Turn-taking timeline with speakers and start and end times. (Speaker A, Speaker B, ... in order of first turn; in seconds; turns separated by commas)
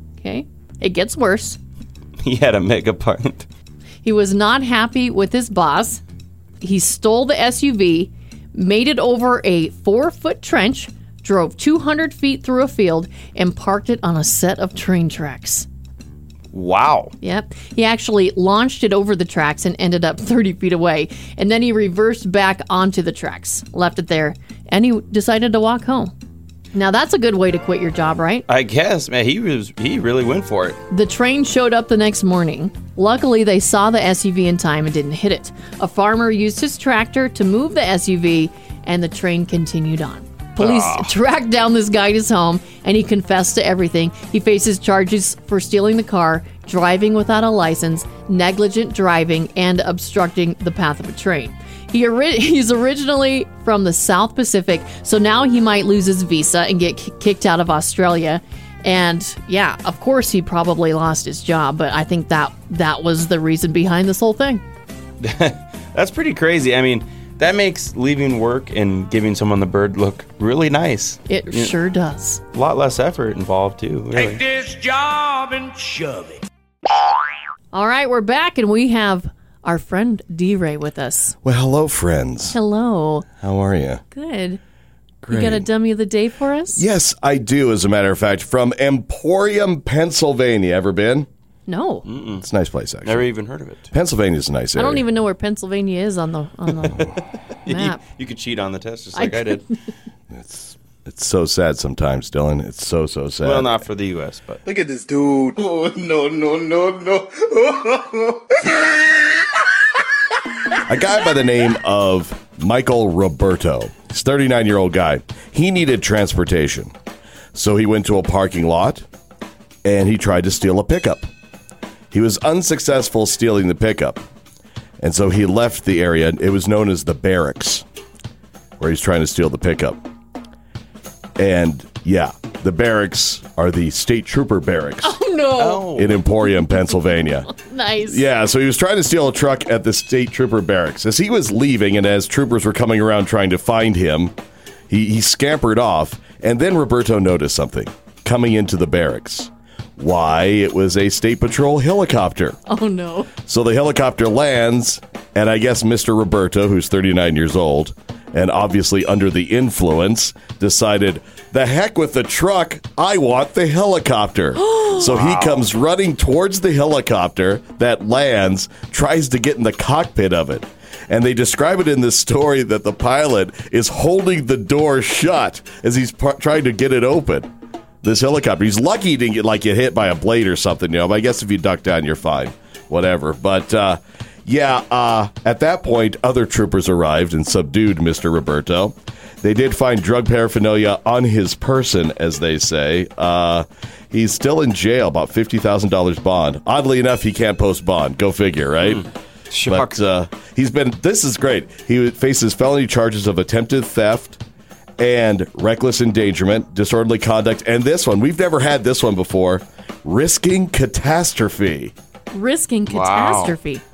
Speaker A: 0.2-1.6, Speaker B: 2.2-3.5, Speaker A: 4.0-6.0, Speaker A: 6.6-15.7, Speaker B: 16.5-17.1, Speaker A: 17.2-26.1, Speaker A: 26.7-28.4, Speaker B: 28.5-30.8, Speaker A: 30.9-64.6, Speaker B: 40.6-41.1, Speaker B: 65.2-71.7, Speaker A: 71.3-72.4, Speaker B: 72.5-74.4, Speaker C: 74.1-76.5, Speaker A: 77.7-81.3, Speaker D: 81.4-82.6, Speaker A: 82.5-83.2, Speaker D: 83.4-84.0, Speaker A: 84.1-84.6, Speaker D: 85.2-85.7, Speaker A: 85.3-86.8, Speaker D: 86.8-91.3, Speaker A: 91.7-92.0, Speaker B: 92.0-92.4, Speaker D: 92.4-93.3, Speaker B: 93.0-93.8, Speaker D: 93.9-95.0, Speaker A: 94.8-97.1, Speaker B: 97.0-99.6, Speaker A: 97.7-98.0, Speaker A: 99.2-99.6, Speaker D: 100.3-103.7, Speaker B: 103.4-104.6, Speaker E: 104.6-109.4, Speaker D: 110.9-116.9, Speaker D: 117.5-119.0, Speaker D: 119.8-121.3, Speaker D: 122.1-124.2, Speaker D: 125.0-127.8, Speaker D: 128.8-130.0, Speaker D: 131.4-135.2, Speaker A: 135.0-135.9, Speaker B: 135.6-136.3, Speaker D: 135.9-137.5, Speaker A: 136.4-136.9, Speaker A: 137.4-138.2, Speaker D: 138.1-144.3, Speaker D: 144.9-152.6, Speaker A: 152.7-153.3, Speaker D: 153.4-177.5, Speaker A: 164.6-165.1, Speaker B: 165.1-165.7, Speaker D: 178.0-199.1, Speaker B: 198.8-200.0, Speaker D: 199.7-204.4, Speaker D: 205.0-211.9, Speaker A: 212.3-213.8, Speaker B: 212.9-213.5